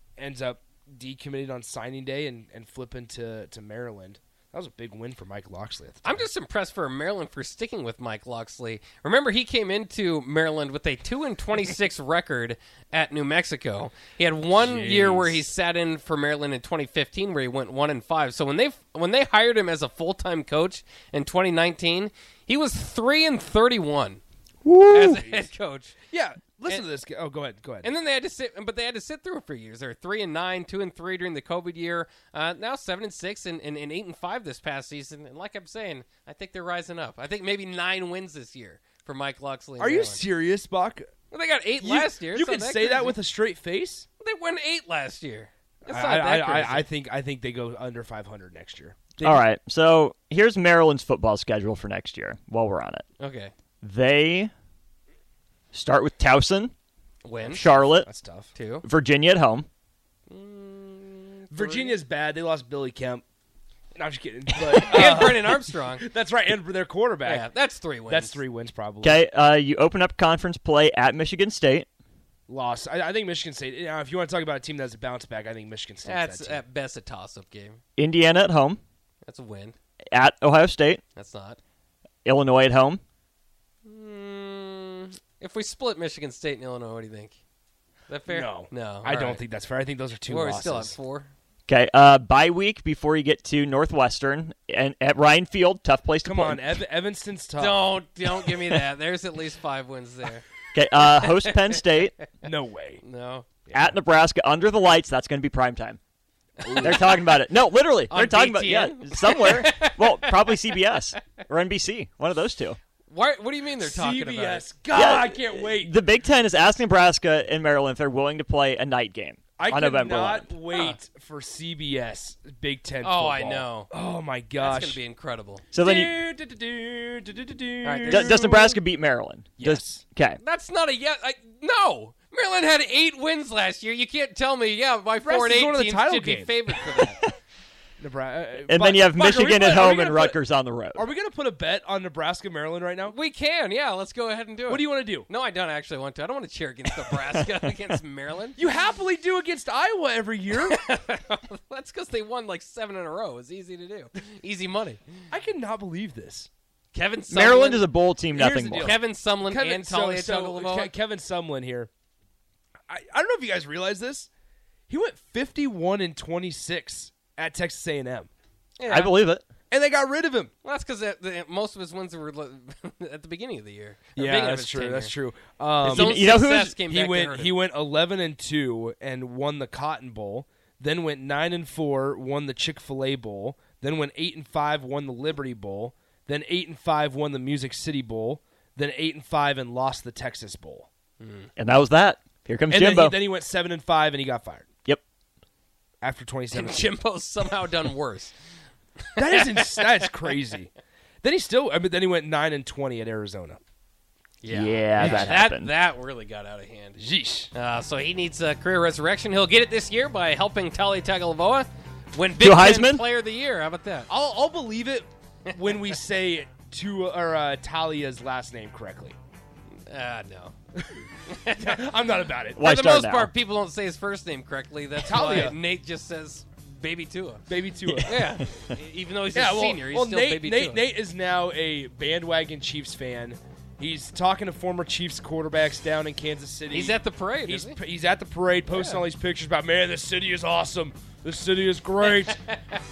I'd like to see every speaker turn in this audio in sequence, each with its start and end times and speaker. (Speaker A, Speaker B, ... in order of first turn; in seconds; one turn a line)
Speaker A: 0.2-6.3
Speaker B: 6.0-24.2
Speaker A: 14.5-15.4
Speaker C: 24.6-25.2
Speaker B: 24.9-25.9
Speaker A: 25.0-25.5
Speaker A: 26.1-27.9
Speaker B: 27.8-40.2
Speaker A: 39.8-41.1
Speaker B: 41.3-43.1
Speaker A: 41.8-44.0
Speaker B: 44.2-46.9
Speaker A: 45.8-49.4
Speaker C: 49.2-53.0
Speaker B: 53.2-53.5
Speaker C: 53.8-54.5
Speaker C: 55.7-56.7
Speaker B: 57.2-57.7
Speaker A: 57.5-58.5
Speaker C: 57.5-58.1
Speaker B: 58.5-58.8
Speaker C: 58.8-59.7
Speaker B: 60.3-62.0
Speaker A: 61.5-63.2
Speaker A: 63.9-67.4
Speaker B: 64.8-66.1
Speaker B: 67.2-68.4
Speaker A: 68.1-69.2
Speaker C: 69.0-71.9
Speaker A: 72.5-76.6
Speaker B: 76.0-77.8
Speaker C: 78.0-78.8
Speaker B: 79.2-79.8
Speaker C: 80.1-81.0
Speaker B: 81.1-81.6
Speaker C: 82.2-83.0
Speaker B: 83.8-87.4
Speaker B: 88.1-89.4
Speaker A: 88.3-90.9
Speaker B: 90.3-91.3
Speaker C: 91.7-96.8
Speaker A: 96.2-97.9
Speaker B: 97.6-100.4
Speaker C: 100.7-102.1
Speaker B: 101.2-101.8
Speaker A: 102.4-103.0
Speaker B: 103.0-103.5
Speaker C: 103.7-106.0
Speaker A: 106.6-107.2
Speaker B: 106.6-107.0
Speaker C: 106.8-112.8
Speaker B: 108.1-110.6
Speaker B: 113.1-114.7
Speaker A: 113.8-115.9
Speaker C: 114.9-120.5
Speaker A: 119.6-125.0
Speaker B: 123.0-123.9
Speaker B: 124.6-125.6
Speaker C: 125.7-126.2
Speaker A: 125.7-128.8
Speaker B: 127.8-128.3
Speaker C: 128.1-130.4
Speaker A: 129.6-130.0
Speaker B: 130.4-137.2
Speaker A: 135.2-136.5
Speaker A: 138.0-140.4
Speaker C: 138.7-141.1
Speaker A: 140.9-143.2
Speaker B: 143.1-148.6
Speaker A: 144.7-145.3
Speaker A: 148.6-150.8
Speaker B: 150.6-155.0
Speaker A: 155.3-156.5
Speaker B: 156.9-157.9
Speaker C: 157.3-159.0
Speaker A: 158.3-161.9
Speaker B: 158.7-160.9
Speaker A: 162.9-164.3
Speaker A: 164.9-168.3
Speaker B: 168.8-169.2
Speaker C: 168.9-169.4
Speaker A: 169.7-170.5
Speaker B: 170.6-175.1
Speaker A: 174.2-176.3
Speaker C: 175.8-176.8
Speaker B: 175.8-177.6
Speaker A: 176.8-190.9
Speaker B: 191.2-191.5
Speaker C: 191.6-193.2
Speaker A: 192.7-194.7
Speaker A: 196.0-196.9
Speaker B: 196.5-198.3
Speaker B: 199.1-199.9
Speaker A: 199.2-200.7
Speaker A: 201.2-203.6
Speaker B: 204.4-207.0
Speaker C: 204.5-205.7
Speaker A: 204.9-205.4
Speaker A: 207.0-207.5
Speaker B: 207.5-214.1
Speaker C: 212.4-213.0
Speaker A: 214.1-219.2
Speaker B: 219.8-220.5
Speaker B: 221.3-221.8
Speaker A: 221.6-222.6
Speaker C: 222.6-223.3
Speaker B: 222.6-227.4
Speaker A: 225.0-225.6
Speaker A: 227.5-228.2
Speaker C: 227.9-228.4
Speaker B: 228.1-230.8
Speaker A: 229.3-242.4
Speaker B: 236.7-237.8
Speaker B: 238.7-239.0
Speaker B: 242.2-242.8